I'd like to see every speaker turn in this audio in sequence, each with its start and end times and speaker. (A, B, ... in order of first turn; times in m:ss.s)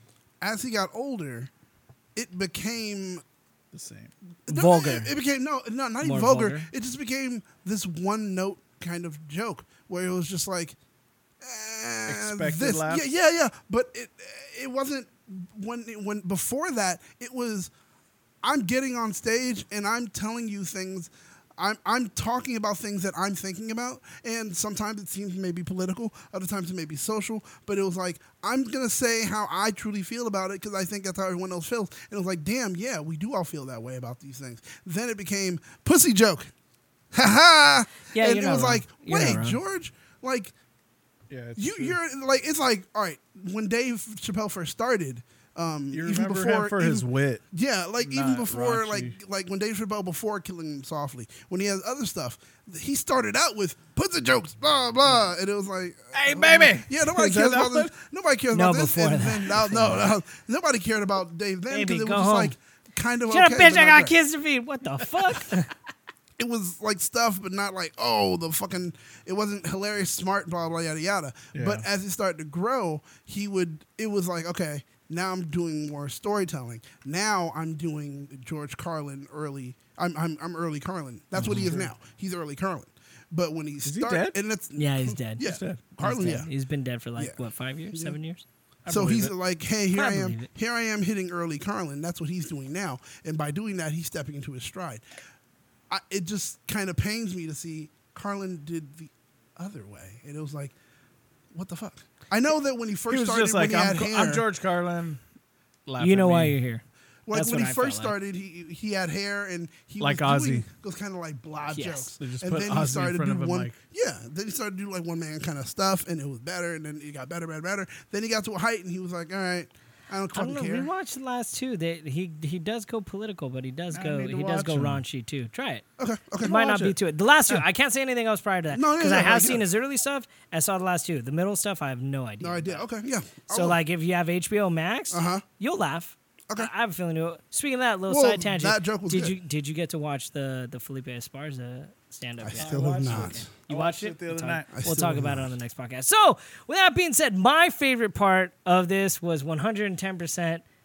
0:00.4-0:01.5 A
0:02.1-0:03.2 A
0:03.7-0:04.1 B
0:04.5-0:10.8 A
0:04.5-0:05.1 C
0:06.0-0:06.7 C
0:11.4-0:17.7 A
0:12.1-0:13.1 B
0:18.4-0:36.5 A
0:37.1-0:40.5 A
0:38.1-0:39.6 C
0:41.3-0:42.0 B
0:41.6-1:04.2 A
0:45.9-0:47.4 B
0:48.0-0:49.2 B
0:56.1-0:57.9 B
0:58.5-1:00.0 C
1:01.7-1:02.5 C
1:03.3-1:05.7 C
1:06.4-1:26.5 A
1:11.5-1:11.8 B
1:21.3-1:21.9 B
1:23.8-1:24.4 B
1:24.8-1:25.4 C
1:25.4-1:25.9 B
1:26.0-1:28.4 C
1:27.9-1:28.2 A
1:28.8-1:29.3 B
1:28.9-1:35.0 A
1:29.9-1:30.5 C
1:35.9-1:40.7 A
1:41.5-1:44.4 A
1:43.1-1:45.2 B
1:45.9-1:46.6 B
1:46.0-1:48.1 C
1:47.2-2:00.9 A
1:50.0-1:50.7 B
1:51.7-1:52.1 C
1:52.2-1:53.8 B
2:00.3-2:05.8 C
2:03.9-2:05.0 B
2:06.0-2:06.7 A
2:06.4-2:12.8 C
2:06.5-2:06.9 B
2:08.7-2:09.6 A
2:12.4-2:13.8 A
2:13.5-2:30.6 C
2:15.1-2:15.4 A
2:18.1-2:19.3 A
2:22.4-2:23.5 A
2:22.6-2:24.8 B
2:24.7-2:25.5 A